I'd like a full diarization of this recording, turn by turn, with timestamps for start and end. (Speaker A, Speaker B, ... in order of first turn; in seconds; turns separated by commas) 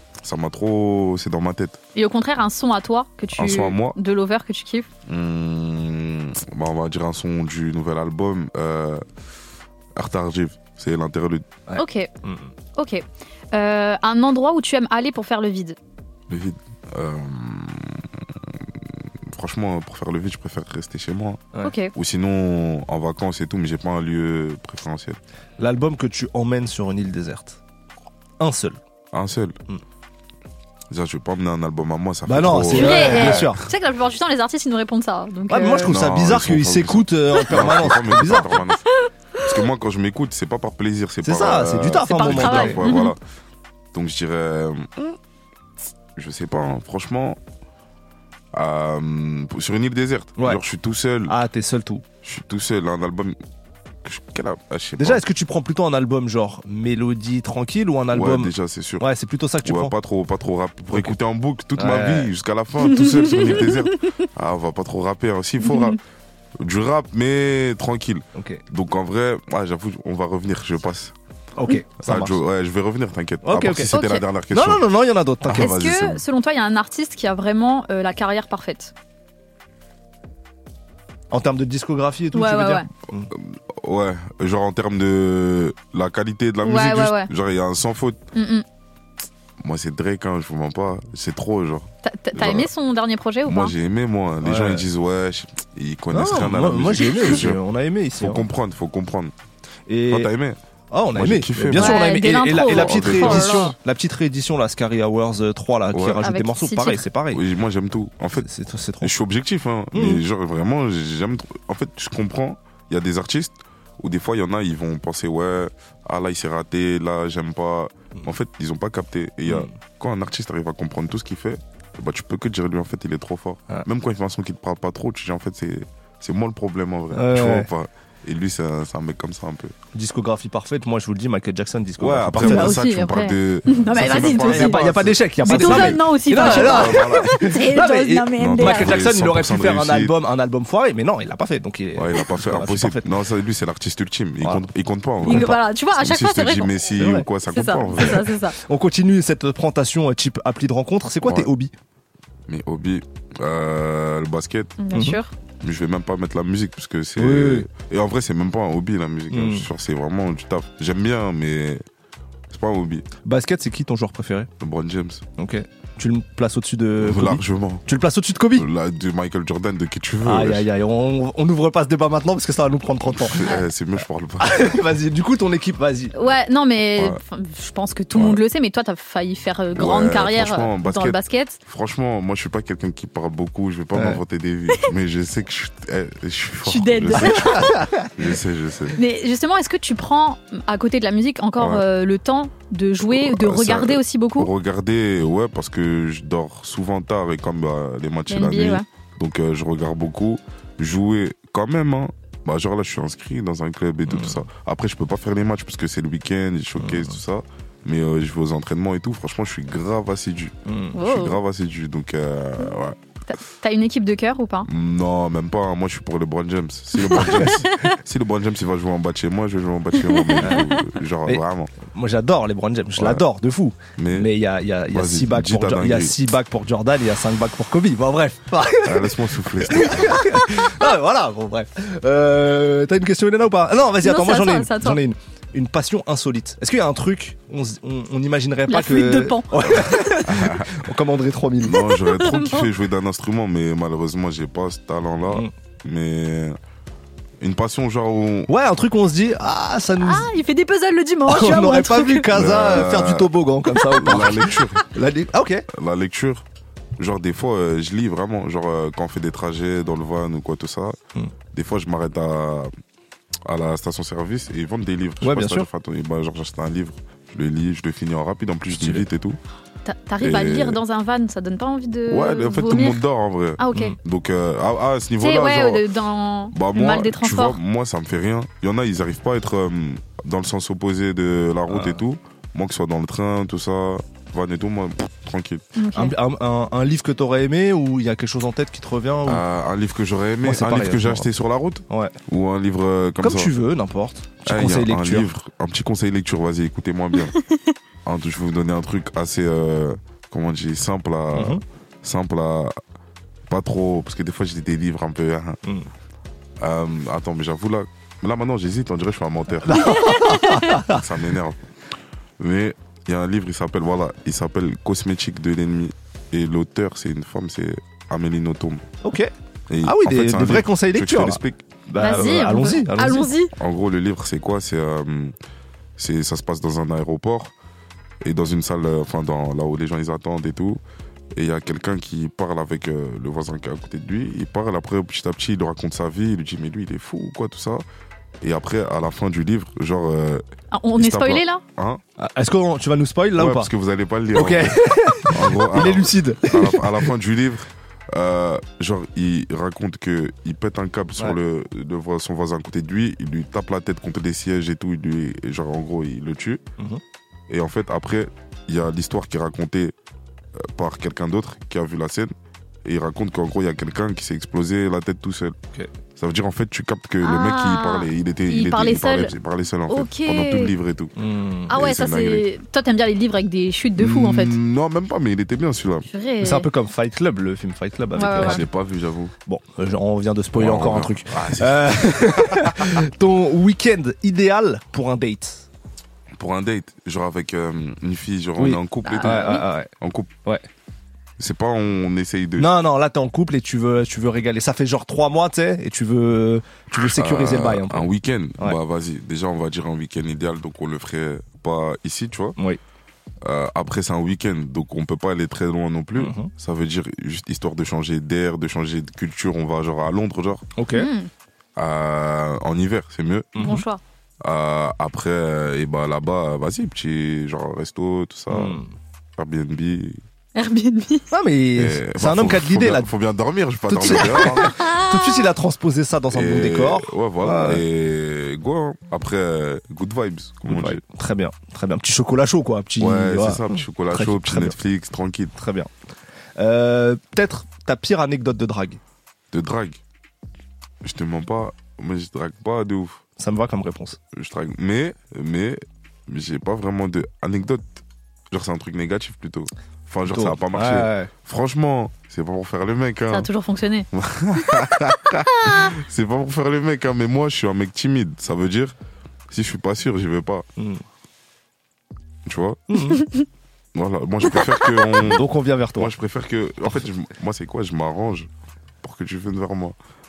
Speaker A: 0.2-1.8, Speaker B: 1.9-4.9, Speaker A: 3.4-4.0, Speaker A: 5.1-9.0, Speaker A: 9.9-11.4, Speaker C: 11.7-12.5, Speaker B: 11.8-12.1, Speaker B: 12.8-15.8, Speaker A: 16.3-18.2, Speaker A: 19.3-21.4, Speaker B: 21.6-21.9, Speaker A: 21.9-25.2, Speaker C: 25.6-27.6, Speaker C: 28.4-28.8, Speaker A: 29.1-29.6, Speaker A: 30.9-33.6, Speaker C: 32.2-33.6, Speaker B: 32.7-35.9, Speaker C: 35.5-38.6, Speaker A: 35.8-38.8, Speaker A: 39.4-43.2, Speaker C: 41.2-42.8, Speaker B: 42.1-43.1, Speaker A: 43.9-45.1, Speaker A: 46.1-47.4, Speaker A: 48.5-51.4, Speaker C: 51.3-52.0, Speaker A: 52.2-53.4, Speaker A: 54.0-55.2, Speaker C: 55.0-59.9, Speaker A: 58.1-59.0, Speaker A: 59.6-66.0, Speaker C: 60.9-61.2, Speaker C: 61.8-62.3, Speaker B: 62.9-63.7, Speaker B: 65.6-65.9, Speaker A: 66.6-71.1, Speaker C: 68.3-68.6, Speaker C: 71.5-72.4, Speaker A: 72.0-74.8, Speaker C: 73.4-73.9, Speaker B: 73.9-74.2, Speaker C: 74.5-76.0, Speaker A: 75.5-76.2, Speaker B: 75.5-78.9, Speaker C: 81.3-83.3, Speaker B: 82.3-82.8, Speaker A: 83.3-88.2, Speaker B: 86.6-87.3, Speaker B: 88.3-88.6, Speaker A: 89.6-92.7, Speaker B: 92.0-93.7, Speaker A: 93.5-97.6, Speaker C: 94.4-94.8, Speaker C: 96.1-98.4, Speaker A: 98.2-99.3, Speaker C: 99.9-100.3, Speaker A: 100.1-100.6, Speaker C: 100.9-107.4, Speaker A: 101.1-102.0, Speaker B: 101.8-103.7, Speaker A: 102.6-103.6, Speaker A: 105.9-106.2, Speaker B: 106.2-107.0, Speaker A: 107.3-108.5, Speaker C: 108.3-109.1, Speaker A: 109.0-129.7, Speaker C: 109.9-110.2, Speaker C: 127.1-127.7, Speaker C: 129.9-132.8, Speaker A: 132.0-137.3, Speaker B: 132.4-134.8, Speaker C: 133.9-143.1, Speaker B: 135.4-139.0, Speaker A: 138.4-140.1, Speaker A: 141.9-148.3, Speaker C: 145.2-145.5, Speaker B: 145.2-146.7, Speaker C: 147.0-147.2, Speaker B: 147.5-148.5, Speaker C: 148.0-151.7, Speaker A: 151.2-151.5, Speaker A: 152.5-154.8, Speaker B: 154.8-155.3, Speaker A: 155.6-161.8, Speaker C: 157.2-157.7, Speaker C: 159.3-159.7, Speaker A: 162.5-163.1, Speaker C: 163.2-164.5, Speaker A: 164.6-165.2, Speaker C: 165.4-168.7, Speaker A: 167.0-167.8, Speaker A: 168.6-170.7, Speaker C: 170.2-173.5, Speaker A: 173.1-174.8, Speaker C: 174.4-176.1, Speaker B: 176.1-181.6, Speaker A: 179.8-189.0, Speaker C: 183.9-184.2, Speaker B: 186.7-187.6, Speaker C: 187.4-188.0, Speaker B: 189.0-194.5, Speaker A: 193.0-212.9, Speaker B: 198.3-198.8, Speaker C: 204.1-204.4, Speaker C: 206.8-207.2, Speaker C: 210.7-210.9, Speaker B: 210.9-211.3, Speaker B: 213.3-214.7, Speaker A: 214.7-221.7, Speaker B: 217.1-217.6, Speaker C: 217.2-217.5, Speaker B: 220.2-220.5, Speaker C: 220.4-220.7, Speaker C: 221.2-241.8, Speaker A: 223.0-223.2, Speaker A: 224.0-224.3, Speaker A: 224.9-226.1, Speaker A: 228.8-230.0, Speaker B: 234.0-235.0, Speaker B: 238.7-239.5, Speaker A: 239.7-240.8, Speaker A: 241.6-246.6, Speaker A: 247.4-248.5, Speaker C: 248.5-250.3, Speaker B: 250.0-252.3, Speaker C: 251.3-255.6, Speaker A: 252.3-253.3, Speaker A: 253.9-254.9, Speaker A: 255.7-256.4, Speaker A: 257.0-261.0, Speaker A: 261.5-262.7, Speaker A: 263.4-269.4, Speaker C: 265.2-265.7, Speaker C: 268.8-269.0, Speaker B: 269.8-273.0, Speaker A: 270.2-270.8, Speaker A: 272.1-275.8, Speaker B: 273.6-273.9, Speaker B: 275.2-277.6, Speaker A: 276.5-285.6, Speaker C: 281.7-282.0, Speaker B: 285.8-286.1, Speaker C: 285.9-289.4, Speaker A: 289.2-293.5, Speaker C: 290.4-291.3, Speaker C: 291.9-292.1, Speaker C: 293.2-295.2, Speaker A: 294.4-297.4, Speaker A: 298.1-302.8, Speaker C: 301.3-301.6, Speaker A: 303.5-305.6, Speaker A: 306.6-310.3, Speaker C: 309.6-311.0, Speaker A: 310.9-311.6, Speaker A: 312.4-318.8, Speaker C: 319.0-319.3, Speaker A: 319.7-321.4, Speaker C: 319.8-323.3, Speaker B: 322.0-323.5, Speaker A: 323.6-325.3, Speaker A: 326.0-327.5, Speaker A: 328.2-330.8, Speaker A: 331.3-337.8, Speaker A: 338.4-340.4, Speaker B: 340.7-341.6, Speaker A: 341.0-342.0, Speaker C: 342.2-343.7, Speaker A: 343.4-344.8, Speaker C: 344.3-347.1, Speaker A: 345.3-356.6, Speaker A: 357.5-359.9, Speaker A: 360.6-362.3, Speaker A: 362.8-365.6, Speaker A: 366.2-371.1, Speaker B: 367.2-369.3, Speaker B: 369.9-370.7, Speaker C: 371.2-371.7, Speaker B: 371.7-374.5, Speaker A: 371.7-372.4, Speaker A: 374.0-376.0, Speaker B: 376.1-376.7, Speaker C: 376.4-378.7, Speaker B: 378.2-378.6, Speaker A: 378.3-379.3, Speaker C: 379.4-385.6, Speaker A: 380.6-382.8, Speaker A: 386.4-390.3, Speaker C: 388.6-389.9, Speaker B: 389.0-389.6, Speaker A: 391.4-392.7, Speaker C: 392.6-398.1, Speaker A: 397.1-402.6, Speaker A: 403.4-410.6, Speaker C: 406.2-406.5, Speaker C: 410.8-411.1, Speaker B: 410.9-411.3, Speaker A: 411.8-413.5, Speaker C: 413.5-413.8, Speaker B: 413.6-414.0, Speaker A: 414.4-418.8, Speaker C: 418.5-418.9, Speaker A: 419.4-420.2, Speaker B: 420.6-421.2, Speaker C: 421.3-423.1, Speaker A: 421.8-424.7, Speaker C: 423.9-427.8, Speaker A: 426.3-431.0, Speaker C: 430.6-434.8, Speaker A: 433.0-435.5, Speaker C: 435.5-435.9, Speaker C: 436.6-439.0, Speaker A: 439.5-440.0, Speaker A: 441.0-443.2, Speaker C: 443.4-444.2, Speaker A: 444.3-448.0, Speaker A: 448.5-453.5, Speaker C: 450.3-451.3, Speaker B: 453.3-454.1, Speaker A: 454.1-458.9, Speaker A: 459.5-460.6, Speaker C: 460.8-461.0, Speaker A: 462.4-462.8, Speaker C: 462.9-463.2, Speaker A: 463.9-465.4, Speaker C: 465.2-466.1, Speaker A: 466.0-468.5, Speaker A: 469.0-469.9